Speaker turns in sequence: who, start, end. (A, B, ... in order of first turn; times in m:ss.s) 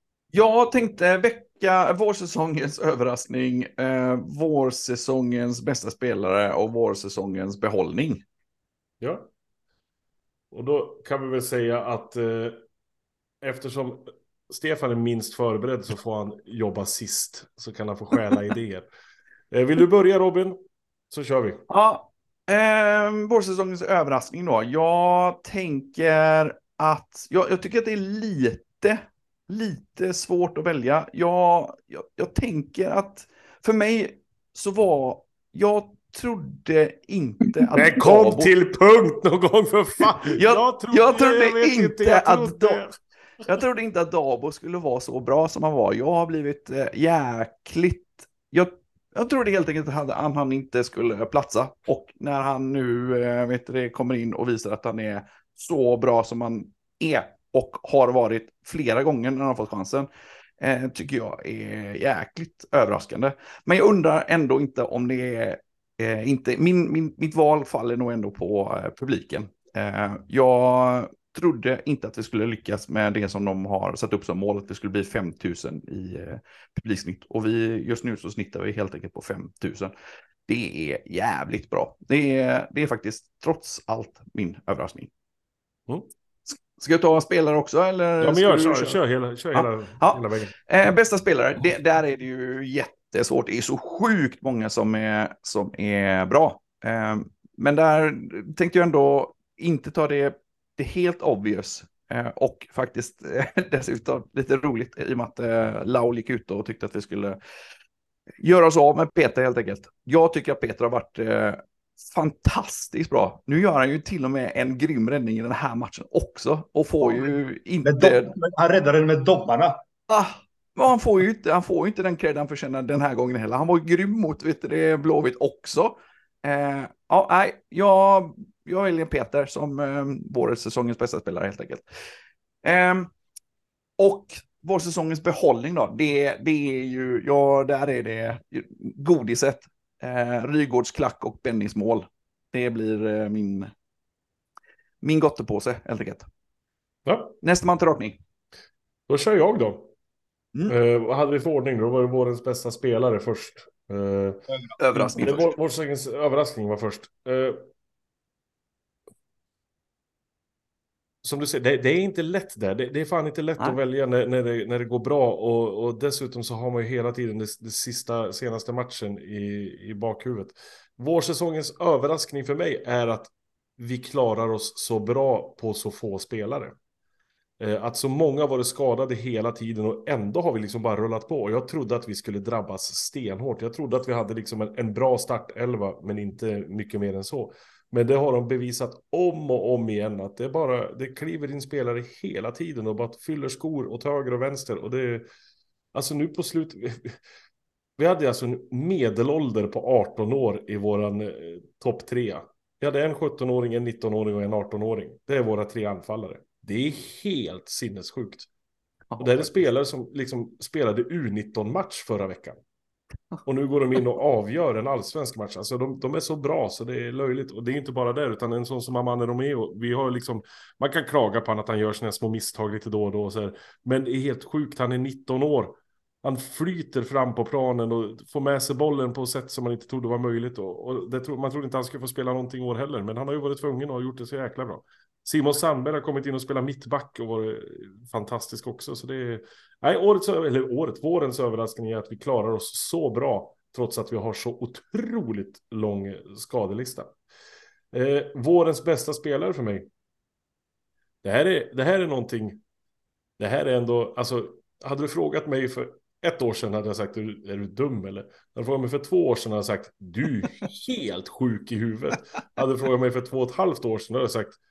0:00.3-0:08.2 A
0:09.0-0:09.3 B
0:10.5-0:12.6 B
0:13.4-0:18.9 B
0:19.5-0:20.6 B
0:21.1-0:21.6 B
0:21.7-0:38.5 A
0:37.8-0:42.9 B
0:40.3-0:42.8 A
0:43.4-1:00.1 A
1:00.6-1:19.9 A
1:20.5-1:25.1 A
1:26.5-1:29.0 A
1:28.2-1:30.5 B
1:29.5-1:47.4 A
1:48.4-1:58.3 A
1:57.8-1:59.8 C
2:00.1-2:11.8 A
2:12.6-2:13.1 A
2:14.0-2:23.7 A
2:25.0-2:26.3 A
2:27.1-2:27.4 B
2:27.4-2:28.2 A
2:29.1-2:29.9 B
2:30.7-2:34.4 B
2:34.5-2:34.8 C
2:34.8-2:35.5 A
2:34.9-2:37.6 B
2:41.2-2:56.8 B
2:57.6-3:15.3 B
3:15.9-3:17.2 B
3:18.0-3:28.5 B
3:29.1-3:29.5 A
3:29.2-3:32.6 B
3:33.4-4:07.1 B
4:07.9-4:09.9 B
4:11.2-4:12.6 B
4:13.4-4:24.6 B